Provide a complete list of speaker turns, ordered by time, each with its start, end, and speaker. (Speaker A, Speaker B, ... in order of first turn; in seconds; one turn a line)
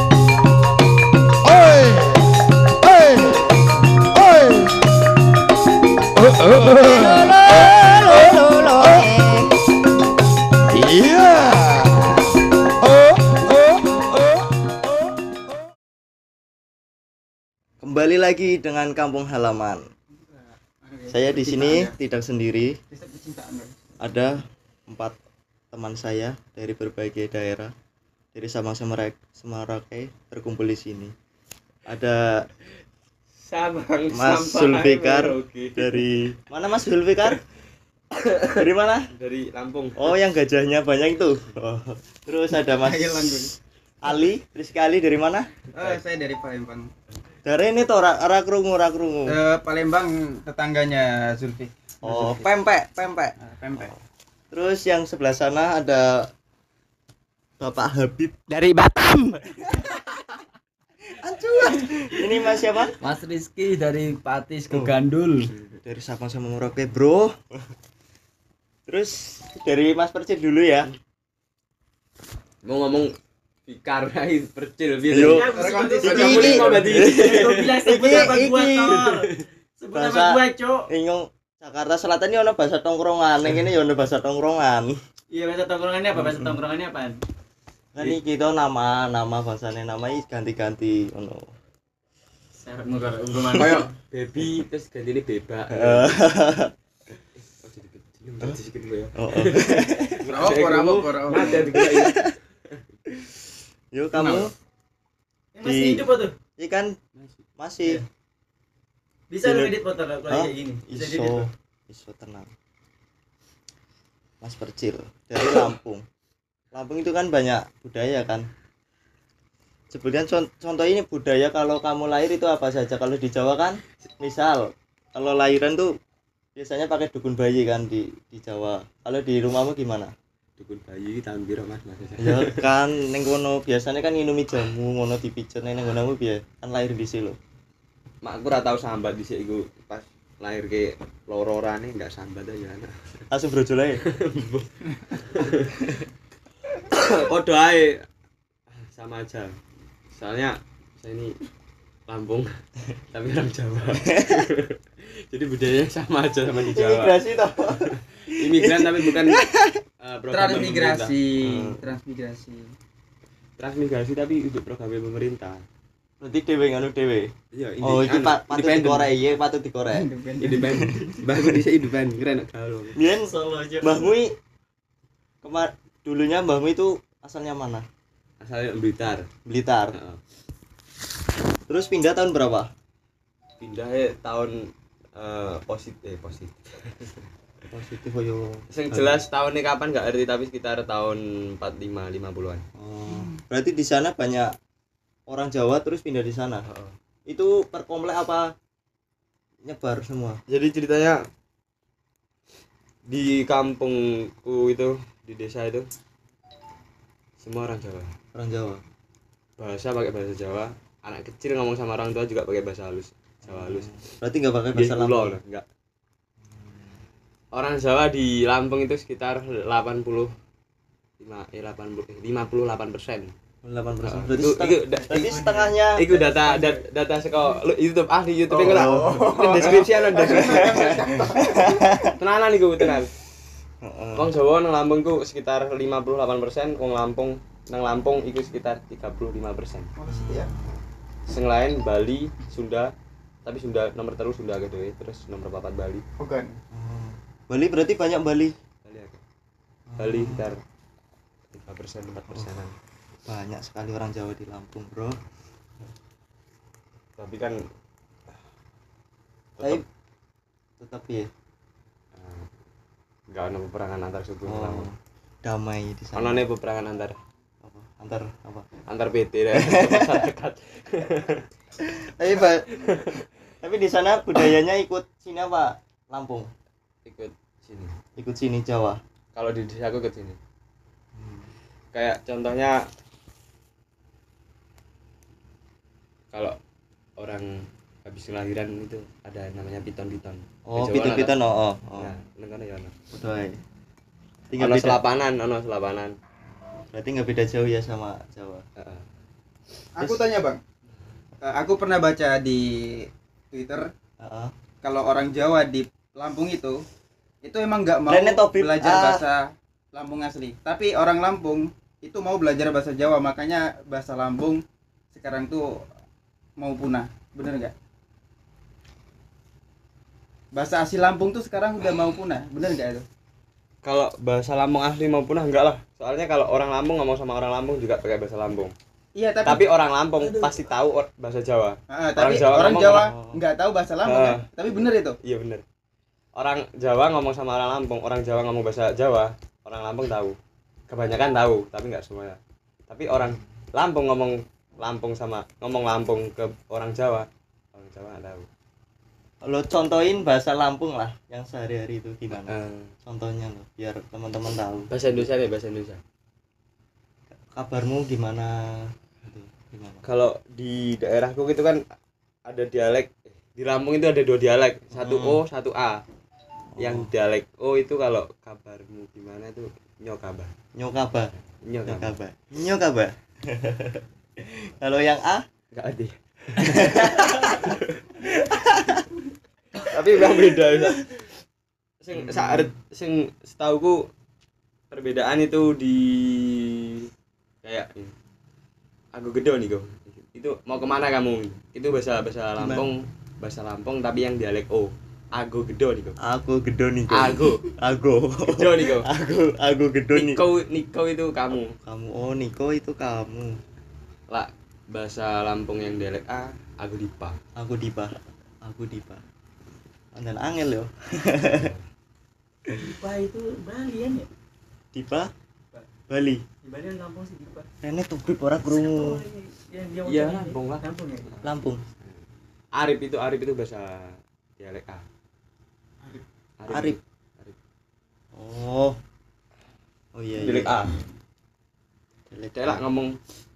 Speaker A: 6.7-9.4
Speaker A: 17.8-19.8
Speaker B: 20.1-21.9
Speaker A: 21.1-22.8
Speaker B: 22.9-23.8
Speaker A: 24.0-25.2
Speaker A: 25.7-27.7
Speaker A: 28.3-31.1
Speaker A: 31.9-32.5
Speaker C: 33.4-36.0
Speaker A: 34.1-37.4
Speaker C: 38.1-40.1
Speaker A: 38.4-39.1
Speaker A: 40.0-45.6
Speaker B: 42.7-43.5
Speaker B: 45.7-46.9
Speaker C: 45.7-46.0
Speaker A: 47.4-49.4
Speaker B: 49.3-54.0
Speaker A: 52.0-52.5
Speaker A: 54.5-56.3
Speaker A: 57.6-58.5
Speaker D: 58.7-59.2
Speaker E: 58.8-59.2
Speaker A: 61.1-63.0
Speaker E: 63.0-65.5
Speaker A: 64.7-64.9
Speaker A: 65.8-67.7
Speaker A: 68.9-70.9
Speaker C: 72.6-73.1
Speaker C: 73.7-78.2
Speaker A: 75.1-79.2
Speaker D: 75.2-80.9
Speaker B: 75.5-76.8
Speaker C: 78.9-79.5
Speaker A: 79.9-85.0
Speaker D: 85.3-87.2
Speaker A: 86.1-86.5
Speaker A: 87.9-91.5
Speaker D: 92.6-93.9
Speaker A: 93.3-93.7
Speaker C: 93.5-96.3
Speaker A: 95.7-96.7
Speaker C: 97.3-102.8
Speaker A: 99.2-100.3
Speaker B: 100.3-101.8
Speaker A: 101.4-102.3
Speaker A: 103.1-104.5
Speaker B: 104.1-104.5
Speaker D: 105.5-106.3
Speaker A: 105.6-107.0
Speaker C: 107.1-107.5
Speaker A: 107.6-108.0
Speaker D: 109.3-111.5
Speaker A: 109.4-112.5
Speaker A: 114.4-116.0
Speaker A: 116.7-118.5
Speaker A: 119.9-125.9
Speaker A: 126.5-130.1
Speaker C: 130.6-132.7
Speaker A: 132.2-137.4
Speaker C: 138.2-143.2
Speaker A: 143.3-144.0
Speaker C: 144.1-146.0
Speaker C: 146.8-148.0
Speaker C: 148.7-149.5
Speaker C: 150.1-151.3
Speaker C: 152.1-152.6
Speaker C: 153.1-159.5
Speaker A: 154.1-154.3
Speaker A: 156.5-159.8
Speaker C: 160.0-161.2
Speaker B: 160.3-162.7
Speaker A: 161.4-161.9
Speaker C: 163.6-165.6
Speaker A: 166.2-170.1
Speaker C: 167.5-169.1
Speaker B: 169.9-171.2
Speaker C: 170.4-174.1
Speaker A: 172.9-174.3
Speaker A: 175.4-177.9
Speaker C: 178.4-179.3
Speaker A: 179.4-180.0
Speaker C: 179.9-180.2
Speaker A: 181.7-182.7
Speaker C: 183.6-187.3
Speaker A: 187.7-189.2
Speaker C: 188.7-192.6
Speaker A: 192.7-194.5
Speaker B: 193.1-193.4
Speaker A: 195.3-196.6
Speaker C: 196.6-196.9
Speaker A: 197.3-198.5
Speaker A: 199.6-200.4
Speaker C: 200.5-201.2
Speaker C: 203.1-205.9
Speaker C: 207.4-208.1
Speaker A: 208.3-208.8
Speaker C: 209.6-214.1
Speaker A: 213.4-215.4
Speaker C: 214.7-215.7
Speaker A: 216.4-217.0
Speaker C: 217.5-220.3
Speaker C: 221.2-223.3
Speaker A: 223.6-226.2
Speaker C: 224.0-231.1
Speaker B: 226.1-226.8
Speaker A: 228.5-232.2
Speaker B: 229.6-231.8
Speaker C: 232.1-233.1
Speaker A: 233.8-234.3
Speaker C: 234.2-239.9
Speaker B: 240.0-240.5
Speaker A: 240.1-240.8
Speaker C: 241.3-242.9
Speaker C: 243.4-246.1
Speaker B: 246.2-246.6
Speaker A: 246.7-248.6
Speaker C: 248.8-249.2
Speaker A: 249.9-250.5
Speaker C: 250.0-250.6
Speaker C: 251.5-252.8
Speaker A: 252.2-252.6
Speaker A: 253.2-255.2
Speaker C: 257.2-257.6
Speaker C: 259.6-259.8
Speaker A: 259.6-259.8
Speaker A: 260.8-261.3
Speaker C: 262.1-262.5
Speaker C: 263.3-264.9
Speaker A: 264.4-266.5
Speaker C: 266.1-267.2
Speaker A: 267.6-268.7
Speaker C: 268.9-271.4
Speaker A: 269.5-270.3
Speaker A: 271.8-272.7
Speaker C: 272.4-273.3
Speaker A: 273.6-276.5
Speaker C: 277.1-277.9
Speaker A: 278.1-279.0
Speaker C: 279.3-280.4
Speaker A: 281.1-281.5
Speaker C: 281.9-282.8
Speaker C: 286.3-286.6
Speaker C: 287.2-291.3
Speaker A: 290.6-292.1
Speaker C: 292.0-292.9
Speaker A: 293.1-293.6
Speaker A: 294.5-295.0
Speaker C: 294.5-296.1
Speaker A: 296.7-298.6
Speaker C: 298.8-299.0
Speaker B: 300.0-300.6
Speaker B: 301.4-303.9
Speaker A: 304.2-304.5
Speaker B: 304.8-306.8
Speaker B: 307.4-315.9
Speaker A: 308.1-309.2
Speaker B: 316.6-317.7
Speaker B: 320.5-323.1
Speaker C: 323.8-328.7
Speaker B: 329.1-329.6
Speaker C: 329.4-333.1
Speaker B: 330.2-330.6
Speaker B: 331.9-335.1
Speaker A: 332.8-333.4
Speaker C: 334.0-334.5
Speaker C: 335.2-335.6
Speaker C: 336.3-340.4
Speaker C: 340.9-348.5
Speaker A: 349.4-352.5
Speaker C: 352.3-352.9
Speaker A: 353.0-354.9
Speaker C: 354.9-356.0
Speaker A: 357.3-360.0
Speaker C: 360.0-361.8
Speaker C: 362.5-366.0
Speaker A: 364.9-365.4
Speaker A: 366.7-367.1
Speaker C: 366.8-370.5
Speaker A: 370.7-371.3
Speaker C: 371.4-372.1
Speaker A: 371.9-375.5
Speaker C: 375.7-378.3
Speaker A: 376.6-377.7
Speaker A: 378.3-379.0
Speaker C: 379.7-381.3
Speaker C: 382.0-384.1
Speaker A: 382.2-382.5
Speaker C: 384.9-387.1
Speaker C: 387.6-388.1
Speaker C: 389.1-396.2
Speaker A: 392.6-392.9
Speaker A: 396.2-400.4
Speaker C: 397.1-397.7
Speaker C: 398.4-399.1
Speaker C: 400.1-401.8
Speaker A: 401.8-403.6
Speaker C: 404.3-407.4
Speaker A: 407.6-409.2
Speaker A: 410.1-411.7
Speaker C: 411.4-411.8
Speaker D: 412.7-414.3
Speaker A: 414.9-415.3
Speaker A: 416.1-416.4
Speaker D: 416.6-417.7
Speaker A: 417.8-419.2
Speaker D: 418.6-421.3
Speaker C: 420.0-421.4
Speaker A: 421.4-421.8
Speaker C: 422.7-425.0
Speaker C: 426.6-427.6
Speaker A: 426.7-427.0
Speaker A: 428.3-429.0
Speaker A: 430.1-430.8
Speaker C: 430.4-431.1
Speaker A: 432.3-432.8
Speaker C: 432.6-433.2